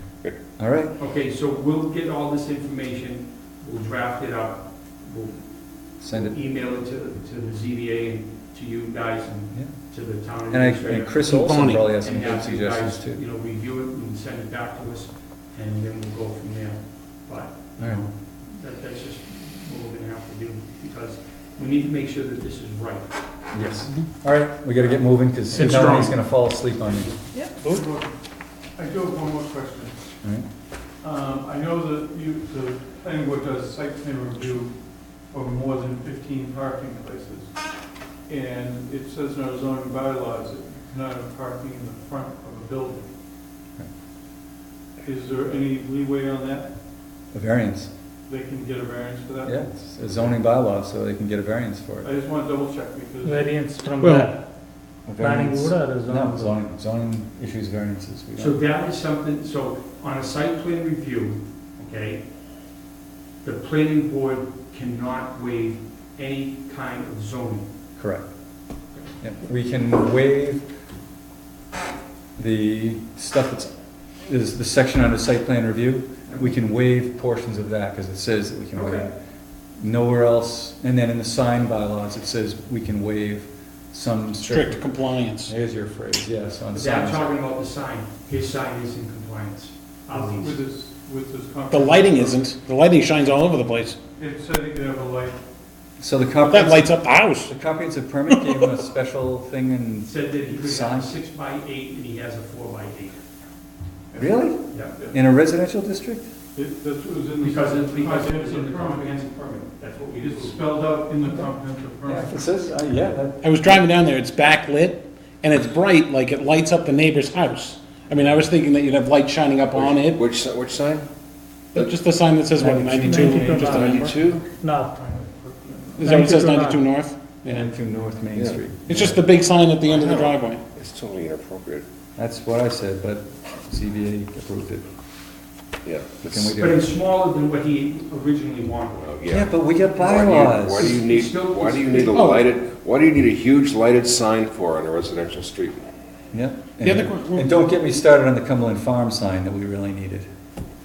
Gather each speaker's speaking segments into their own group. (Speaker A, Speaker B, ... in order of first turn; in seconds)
Speaker A: 0.6-1.0, 6.0-6.3, 10.5-13.2, 17.8-18.0, 23.5-27.1, 47.3-47.9, 49.4-52.1, 55.1-58.6, 68.0-68.3, 69.2-70.7, 72.4-73.7, 74.3-79.1, 79.8-84.9, 85.4-87.3, 96.0-101.2, 104.2-104.6, 105.1-106.3, 112.1-113.8, 122.6-123.9, 127.4-129.2, 132.2-134.9, 136.2-136.9, 139.3-141.0, 146.3-150.3
Speaker B: 1.0-23.9, 24.8-27.2, 58.4-62.2, 63.4-67.7, 78.8-79.1, 86.7-90.6, 100.1-103.2, 104.7-105.0, 107.4-110.6, 136.6-139.0, 140.8-142.3
Speaker C: 11.2-11.9, 25.6-26.1, 54.0-54.3, 84.4-85.5, 91.7-94.0, 96.5-97.5, 98.3-98.7, 113.4-120.2, 121.7-124.2, 126.0-127.7, 128.9-130.6, 142.1-142.5, 146.8-147.7
Speaker D: 27.3-27.9, 53.2-54.4, 55.2-56.5, 122.9-125.1, 126.0-126.9
Speaker E: 27.4-28.2, 28.8-29.9, 31.0-37.6, 38.3-43.1, 45.0-46.7, 48.3-49.7, 52.0-53.5, 90.1-92.4, 94.2-95.4, 104.1-104.4, 106.5-109.3, 110.1-112.4, 124.3-126.2
Speaker F: 119.7-121.1, 123.6-124.5, 128.3-128.6, 129.8-131.8, 135.8-136.5, 139.0-145.8